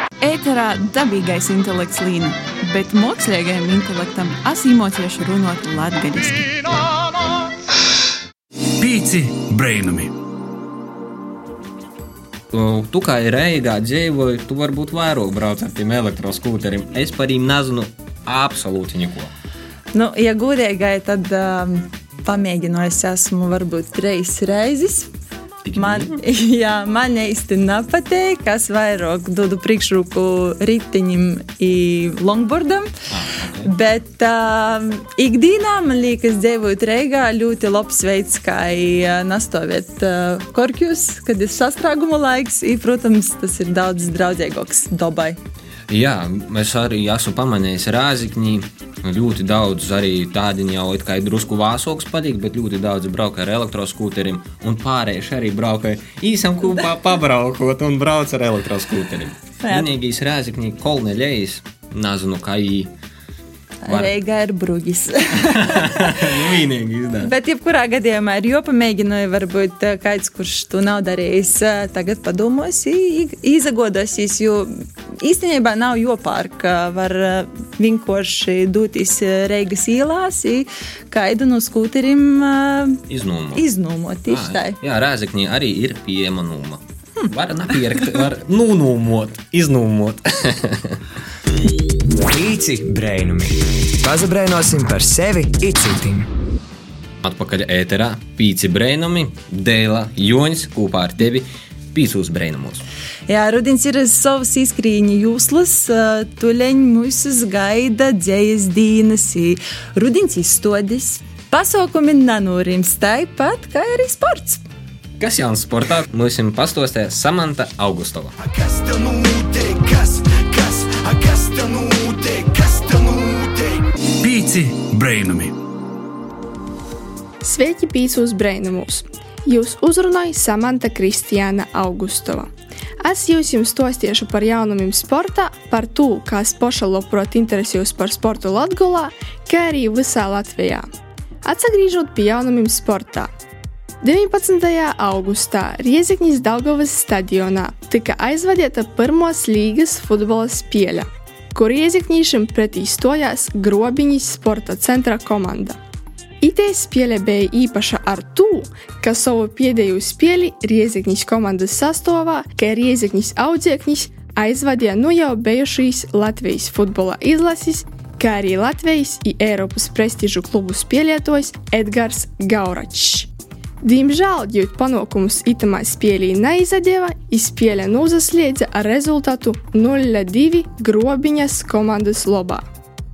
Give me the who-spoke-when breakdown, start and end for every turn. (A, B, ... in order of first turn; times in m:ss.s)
0:00.2-0:06.5 A
0:08.8-0:10.1 B
0:12.5-0:19.3 C
0:19.9-0:25.1 D
0:25.6-0:26.2 C
0:25.8-0:32.9 D
0:33.1-0:33.7 C
0:33.6-0:45.4 D
0:45.9-1:02.9 C
1:03.8-1:06.2 D
1:03.9-1:04.1 C
1:05.5-1:07.3 C
1:07.2-1:23.0 D
1:23.1-1:23.6 C
1:23.6-1:24.8 D
1:24.3-1:31.0 C
1:32.2-1:36.3 E
1:37.2-1:42.8 C
1:43.3-1:54.6 D
1:55.2-1:58.3 C
2:04.2-2:05.5 B
2:07.4-2:12.5 F
2:13.0-2:20.9 F
2:21.4-2:23.3 F
2:24.0-2:35.8 F
2:36.4-2:53.3 F
2:53.8-3:02.6 F